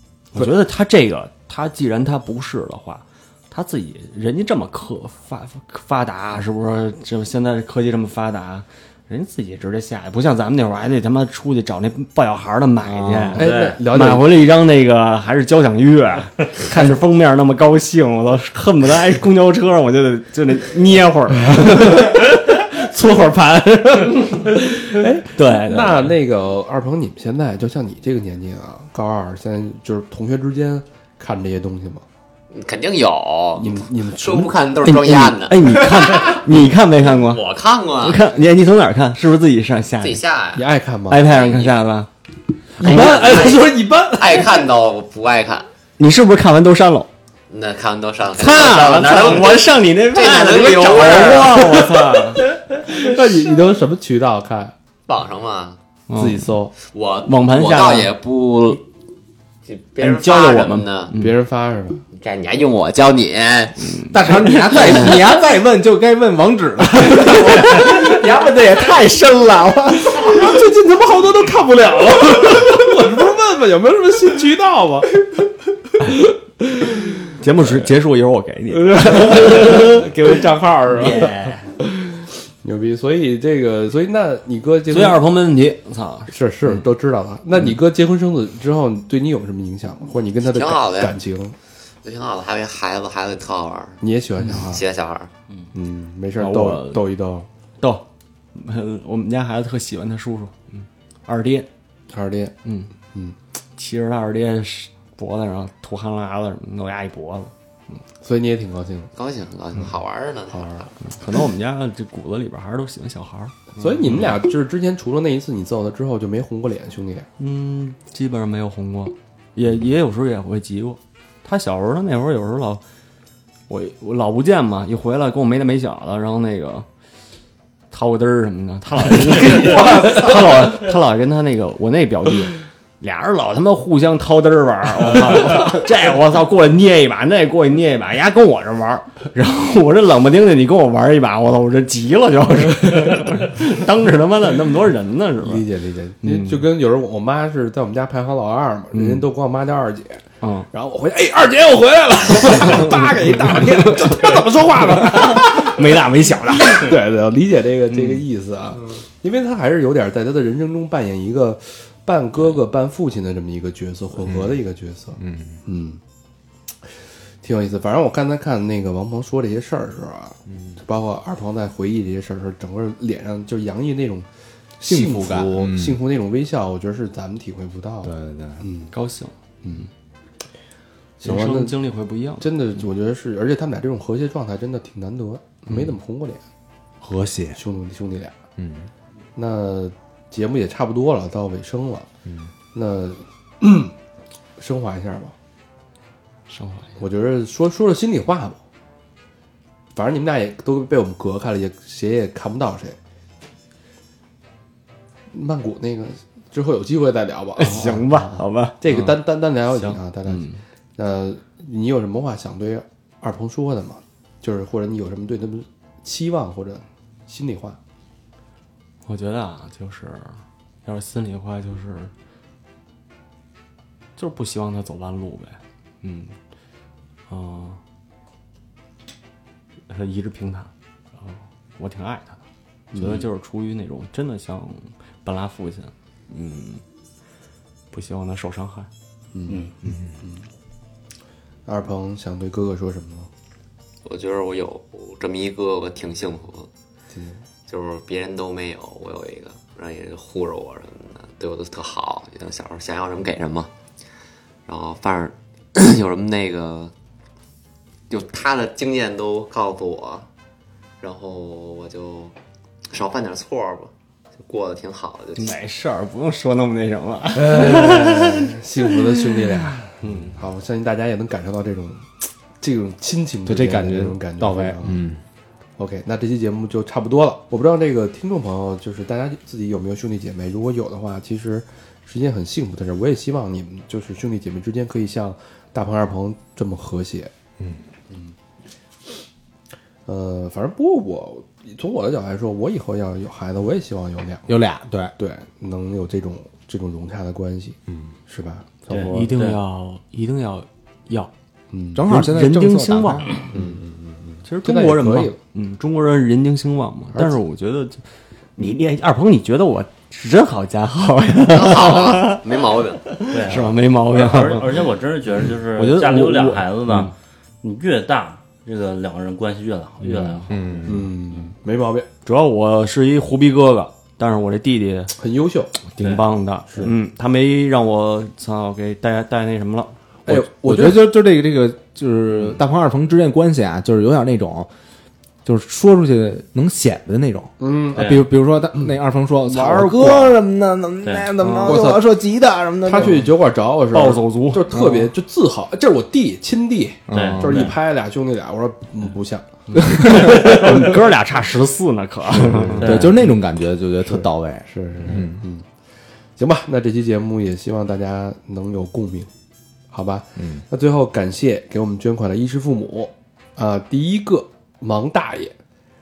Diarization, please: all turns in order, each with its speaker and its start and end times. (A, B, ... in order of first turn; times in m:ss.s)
0:00.3-0:24.7 A
0:12.8-0:13.5 B
0:13.4-0:14.3 C
0:13.4-0:13.8 D
0:24.7-0:32.0 C
0:25.3-0:26.1 A
0:32.5-0:36.4 E
0:33.6-0:34.6 C
0:34.8-0:37.4 A
0:37.1-0:38.2 E
0:38.0-0:40.2 A
0:40.0-0:40.6 E
0:40.5-0:41.2 C
0:41.1-0:42.1 A
0:41.2-0:41.7 E
0:42.8-0:43.6 A
0:42.8-0:44.7 C
0:42.8-0:45.7 E
0:46.0-0:47.1 A
0:47.5-0:51.7 E
0:48.4-0:52.4 A
0:52.5-0:54.7 C
0:55.1-0:55.8 E
0:56.1-0:56.5 A
0:56.1-0:56.7 C
0:56.8-0:58.8 E
0:57.2-0:58.1 A
0:59.6-1:01.1 E
1:00.0-1:01.3 A
1:01.1-1:02.0 C
1:02.1-1:04.0 E
1:03.8-1:05.0 A
1:04.1-1:10.4 B
1:04.7-1:05.2 E
1:07.3-1:07.9 A
1:10.1-1:15.3 C
1:16.0-1:17.3 C
1:17.4-1:20.1 A
1:18.7-1:25.2 C
1:20.9-1:21.6 D
1:21.0-1:21.4 A
1:24.9-1:26.8 A
1:26.3-1:31.6 C
1:30.4-1:31.2 E
1:32.0-1:34.0 E
1:34.0-1:34.8 C
1:34.5-1:35.3 E
1:35.7-1:37.5 C
1:36.4-1:37.0 A
1:37.8-1:41.7 A
1:42.1-1:42.5 C
1:42.6-1:42.9 A
1:43.8-1:47.5 A
1:48.2-1:49.1 C
1:49.2-1:50.9 E
1:50.5-1:50.8 C
1:51.0-1:54.3 A
1:53.8-1:57.3 C
1:57.4-2:02.8 A
2:03.7-2:06.9 A
2:07.9-2:25.6 A
2:25.4-2:35.9 C
2:26.2-2:26.7 A
2:28.9-2:29.3 A
2:30.4-2:30.7 A
2:32.4-2:34.4 B
2:32.6-2:34.4 A
2:34.9-2:37.0 A
2:35.0-2:35.3 B
2:36.6-2:46.0 C
2:37.9-2:38.2 A
2:44.2-2:44.6 B
2:45.2-2:45.6 B
2:47.4-2:54.3 C
2:54.8-2:58.9 C
2:54.8-2:56.0 B
2:58.0-2:58.6 B
2:58.9-2:59.3 A
2:59.6-2:59.9 C
3:01.2-3:01.8 C
3:01.2-3:02.5 A
3:02.4-3:06.4 C
3:07.0-3:07.6 B
3:07.5-3:08.3 C
3:08.6-3:08.9 B
3:09.4-3:12.1 C
3:12.7-3:13.9 C
3:14.6-3:15.3 C
3:16.5-3:17.0 A
3:17.0-3:18.6 C
3:19.9-3:23.0 C
3:25.3-3:37.8 C
3:27.6-3:29.1 A
3:29.7-3:30.6 A
3:39.0-3:42.1 A
3:44.2-3:46.4 A
3:47.3-3:47.8 A
3:49.9-3:52.4 A
3:52.9-3:53.2 C
3:52.9-3:56.8 A
3:57.9-3:58.9 A
3:59.3-3:59.7 C
4:00.2-4:00.4 C
4:01.6-4:03.3 C
4:04.0-4:06.7 E
4:07.1-4:07.4 C
4:07.7-4:13.7 E
4:14.7-4:16.9 E
4:18.1-4:20.2 E
4:21.0-4:22.3 E
4:22.9-4:25.5 E
4:25.4-4:28.5 A
4:27.3-4:35.0 C
4:30.0-4:30.4 A
4:33.4-4:35.2 B
4:35.8-4:47.3 C
4:50.0-4:54.5 C
4:54.5-4:55.1 B
4:55.2-4:59.3 C
4:58.9-4:59.6 D
4:59.1-5:01.3 A
5:01.7-5:02.1 C
5:01.9-5:03.3 B
5:02.1-5:03.4 A
5:03.5-5:05.4 C
5:04.4-5:08.0 A
5:08.6-5:12.5 A
5:11.5-5:13.2 E
5:13.1-5:14.7 A
5:13.3-5:20.9 D
5:15.7-5:17.1 A
5:20.5-5:21.1 B
5:20.8-5:22.1 C
5:22.2-5:25.1 A
5:25.1-5:25.7 C
5:25.8-5:29.9 A
5:26.0-5:26.2 D
5:30.2-5:31.1 C
5:30.3-5:34.7 B
5:35.4-5:43.3 B
5:37.6-5:38.1 C
5:37.9-5:38.2 D
5:39.4-5:40.4 A
5:41.0-5:41.8 D
5:41.5-5:42.1 C
5:42.8-5:50.9 C
5:43.9-5:44.8 A
5:44.7-5:45.1 B
5:47.1-5:47.8 B
5:47.1-5:47.8 D
5:49.8-5:50.2 B
5:49.9-5:52.9 A
5:52.4-5:53.1 C
5:52.5-5:55.4 B
5:52.8-5:53.2 D
5:54.1-5:55.6 C
5:56.4-5:59.3 C
5:59.9-6:05.5 C